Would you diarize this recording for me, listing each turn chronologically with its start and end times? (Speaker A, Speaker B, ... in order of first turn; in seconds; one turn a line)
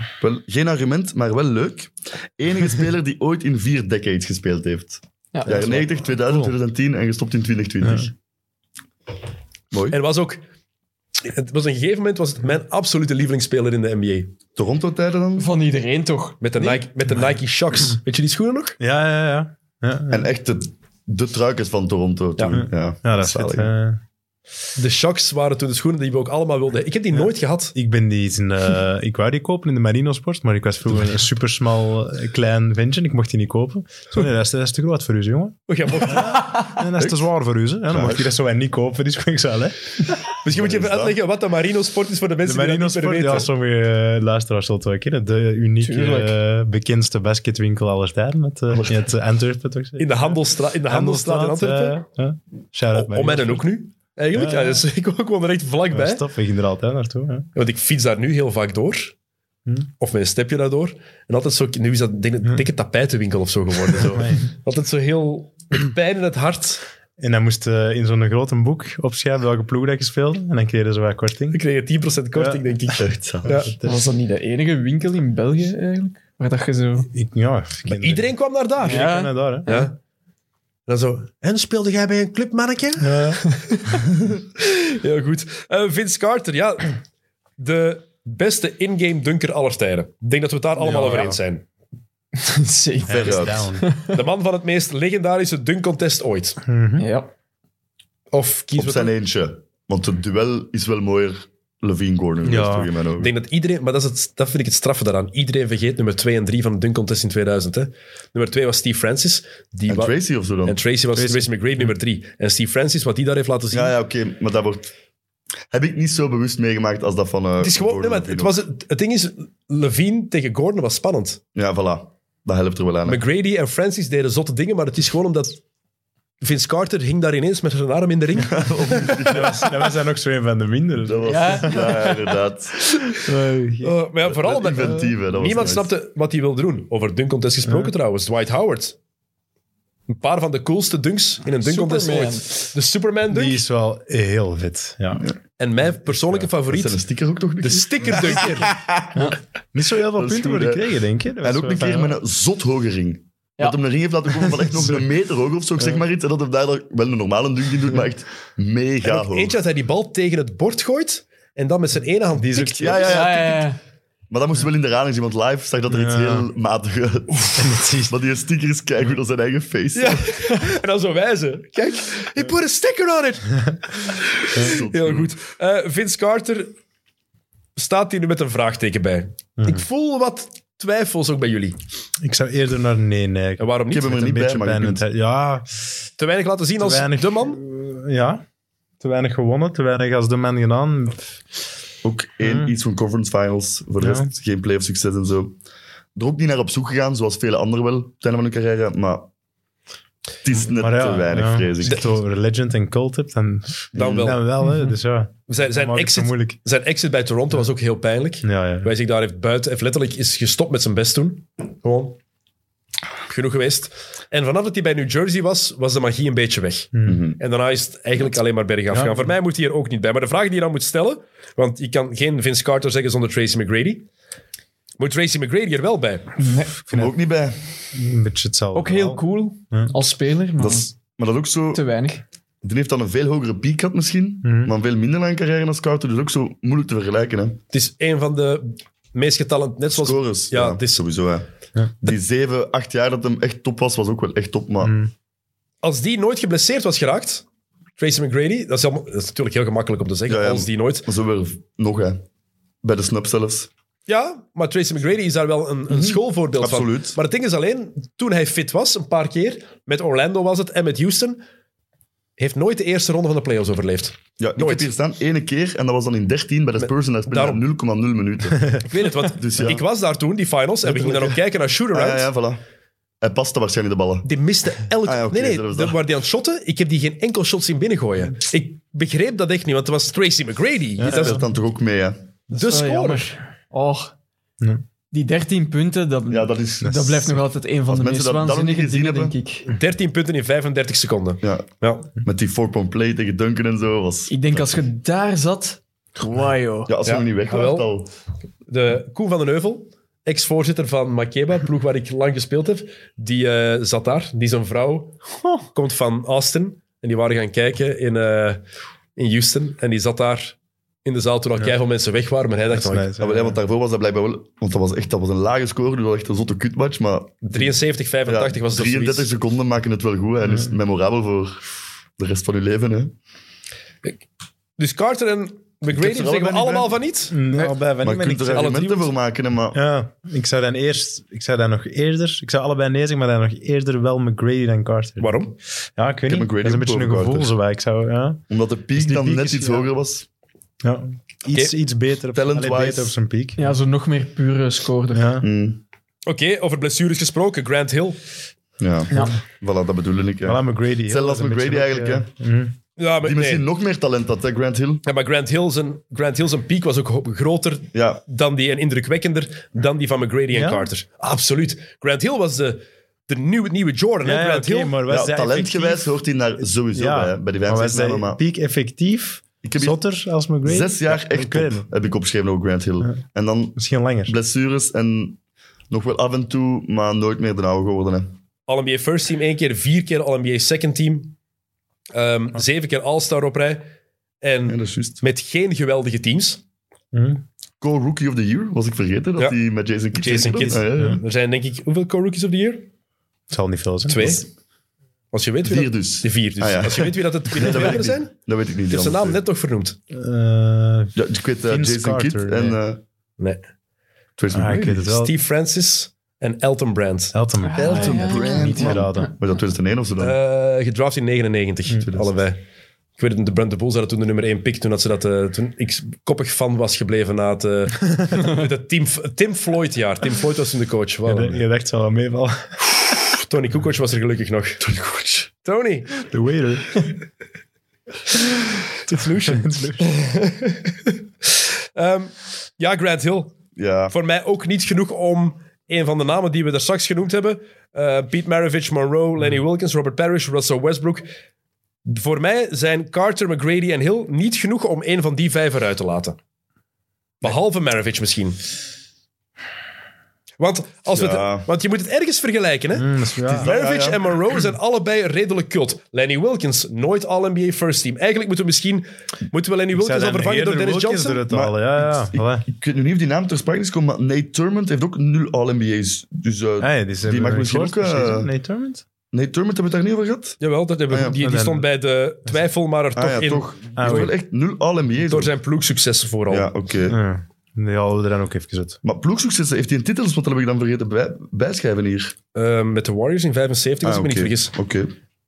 Speaker A: 0.2-8.1
Speaker B: 5.3-5.9
Speaker C: 7.8-8.1
Speaker A: 9.7-10.0
Speaker D: 9.9-10.4
Speaker D: 11.2-14.3
Speaker A: 14.6-15.5
Speaker B: 15.4-16.9
Speaker D: 16.4-18.8
Speaker C: 18.8-20.3
Speaker A: 20.1-23.7
Speaker D: 22.4-22.6
Speaker C: 22.5-24.0
Speaker D: 24.8-27.8
Speaker C: 27.8-40.1
Speaker D: 35.7-36.5
Speaker A: 37.0-37.2
Speaker A: 37.9-38.3
Speaker D: 40.4-43.5
Speaker A: 40.5-41.2
Speaker C: 42.5-53.7
Speaker B: 45.8-46.4
Speaker A: 48.7-49.0
Speaker D: 50.0-52.0
Speaker D: 53.0-56.2
Speaker C: 54.4-54.8
Speaker C: 55.9-57.5
Speaker D: 57.5-59.1
Speaker D: 60.0-66.8
Speaker C: 64.1-64.5
Speaker C: 67.2-71.6
Speaker D: 71.5-73.7
Speaker C: 72.3-72.7
Speaker A: 73.0-73.6
Speaker C: 73.4-74.0
Speaker B: 73.8-77.1
Speaker C: 77.1-78.3
Speaker D: 77.9-79.1
Speaker C: 78.8-79.7
Speaker B: 78.8-79.9
Speaker D: 79.7-79.9
Speaker D: 80.9-83.8
Speaker C: 83.0-83.4
Speaker D: 84.6-87.0
Speaker D: 87.6-91.7
Speaker C: 90.8-91.4
Speaker B: 92.4-94.2
Speaker C: 93.1-93.9
Speaker A: 93.1-93.7
Speaker D: 94.1-96.6
Speaker C: 96.7-97.1
Speaker B: 97.0-97.3
Speaker D: 98.3-99.1
Speaker A: 98.8-103.3
Speaker C: 102.4-102.9
Speaker D: 103.2-110.1
Speaker A: 109.9-110.8
Speaker D: 110.7-114.0
Speaker C: 111.2-111.9
Speaker A: 113.7-114.9
Speaker A: 115.7-118.6
Speaker D: 117.6-121.4
Speaker A: 121.5-123.2
Speaker D: 123.0-125.6
Speaker D: 126.4-129.6
Speaker A: 128.4-129.7
Speaker C: 129.3-131.9
Speaker A: 131.0-132.8
Speaker B: 131.2-132.4
Speaker C: 133.2-134.0
Speaker D: 133.8-139.0
Speaker A: 134.2-135.9
Speaker C: 137.6-137.9
Speaker D: 140.1-143.6
Speaker B: 141.6-142.5
Speaker C: 143.3-145.2
Speaker D: 145.6-147.0
Speaker A: 146.7-149.4
Speaker D: 147.6-148.8
Speaker C: 149.2-152.2
Speaker A: 150.1-150.9
Speaker A: 151.4-159.6
Speaker D: 159.0-163.4
Speaker A: 162.8-163.7
Speaker B: 163.0-163.8
Speaker A: 164.3-170.4
Speaker C: 165.9-166.5
Speaker C: 167.6-168.2
Speaker D: 169.9-176.7
Speaker A: 174.6-175.3
Speaker D: 177.8-181.8
Speaker C: 179.6-179.8
Speaker C: 182.2-186.0
Speaker D: 183.6-184.1
Speaker A: 183.9-185.1
Speaker D: 186.2-187.6
Speaker C: 186.8-188.4
Speaker C: 189.0-191.2
Speaker A: 192.0-195.6
Speaker C: 192.4-192.7
Speaker C: 194.0-194.3
Speaker A: 196.2-199.3
Speaker A: 200.4-202.0
Speaker C: 200.7-206.6
Speaker A: 203.9-204.4
Speaker D: 204.0-204.4
Speaker D: 205.5-212.2
Speaker C: 208.4-208.9
Speaker D: 213.3-224.1
Speaker C: 216.9-217.2
Speaker A: 217.1-217.4
Speaker C: 218.9-219.3
Speaker D: 225.0-226.3
Speaker B: 226.4-226.8
Speaker C: 226.9-227.2
Speaker A: 226.9-227.6
Speaker C: 227.9-229.9
Speaker B: 228.8-230.9
Speaker A: 230.6-231.8
Speaker B: 231.7-232.2
Speaker A: 232.6-237.6
Speaker C: 234.4-234.7
Speaker D: 237.7-241.0
Speaker A: 239.9-241.5
Speaker A: 242.0-245.0
Speaker C: 244.8-245.1
Speaker D: 245.8-247.4
Speaker D: 248.0-251.1
Speaker A: 250.3-252.2
Speaker A: 252.8-253.7
Speaker D: 254.1-261.4
Speaker A: 255.9-257.2
Speaker D: 262.4-264.9
Speaker A: 264.4-269.8
Speaker D: 266.8-267.6
Speaker D: 268.8-272.3
Speaker A: 270.9-271.4
Speaker A: 271.9-272.6
Speaker A: 273.2-274.3
Speaker D: 274.2-281.4
Speaker A: 275.0-276.0
Speaker C: 281.0-281.4
Speaker A: 281.0-282.2
Speaker D: 282.5-283.3
Speaker B: 282.5-284.1
Speaker B: 285.1-289.7
Speaker A: 286.3-287.3
Speaker C: 286.8-287.1
Speaker A: 287.9-289.4
Speaker D: 289.7-292.1
Speaker A: 291.4-291.7
Speaker A: 292.2-294.3
Speaker B: 294.3-296.9
Speaker A: 296.9-298.1
Speaker D: 297.0-297.9
Speaker D: 298.7-308.6
Speaker D: 309.2-313.1
Speaker C: 312.7-313.6
Speaker A: 313.2-317.7
Speaker D: 317.4-319.3
Speaker A: 318.3-323.1
Speaker D: 324.8-327.7
Speaker A: 325.9-326.9
Speaker C: 327.3-328.8
Speaker A: 328.0-329.8
Speaker D: 328.5-329.1
Speaker C: 329.7-339.9
Speaker D: 335.2-335.5
Speaker A: 336.3-337.5
Speaker A: 338.5-340.3
Speaker C: 340.8-343.8
Speaker A: 342.3-343.1
Speaker B: 343.6-345.3
Speaker C: 345.1-345.5
Speaker A: 345.4-345.8
Speaker D: 346.3-348.2
Speaker A: 348.8-352.3
Speaker B: 349.1-349.4
Speaker C: 350.4-352.8
Speaker D: 353.0-353.6
Speaker A: 353.2-355.0
Speaker D: 355.0-365.0
Speaker A: 357.9-358.2
Speaker C: 360.5-360.9
Speaker C: 364.2-371.9
Speaker A: 365.1-368.4
Speaker A: 369.6-370.0
Speaker A: 370.6-375.4
Speaker C: 373.8-374.4
Speaker A: 375.9-378.3
Speaker D: 378.7-381.4
Speaker D: 382.1-383.9
Speaker D: 384.4-386.6
Speaker A: 384.7-385.2
Speaker C: 387.1-387.4
Speaker A: 387.8-391.2
Speaker D: 390.2-392.9
Speaker C: 390.4-391.2
Speaker C: 393.5-394.4
Speaker D: 394.1-394.5
Speaker D: 395.3-398.3
Speaker A: 395.6-399.4
Speaker D: 398.9-400.0
Speaker C: 400.1-401.2
Speaker A: 401.2-403.0
Speaker C: 401.7-402.8
Speaker A: 404.4-405.1
Speaker C: 404.5-405.3
Speaker D: 405.0-407.4
Speaker C: 407.3-409.3
Speaker B: 407.6-409.1
Speaker A: 407.8-410.4
Speaker D: 410.2-412.6
Speaker D: 413.2-421.6
Speaker C: 421.3-422.8
Speaker D: 423.3-424.8
Speaker A: 424.8-425.5
Speaker D: 425.6-426.2
Speaker C: 426.2-427.0
Speaker D: 429.1-433.5
Speaker C: 429.1-430.1
Speaker A: 433.8-434.1
Speaker D: 434.1-441.3
Speaker D: 442.1-446.4
Speaker D: 447.4-448.6
Speaker D: 450.6-461.4
Speaker A: 451.1-451.7
Speaker C: 452.9-453.7
Speaker A: 453.5-454.3
Speaker C: 459.9-462.6
Speaker A: 461.5-468.5
Speaker C: 466.8-469.0
Speaker A: 469.3-470.6
Speaker D: 470.6-474.3
Speaker A: 471.1-471.4
Speaker C: 471.4-471.9
Speaker A: 473.2-475.5
Speaker C: 474.0-474.3
Speaker D: 475.3-476.7
Speaker A: 476.5-477.2
Speaker C: 477.1-479.0
Speaker A: 479.0-482.4
Speaker D: 482.6-484.7
Speaker A: 484.0-485.1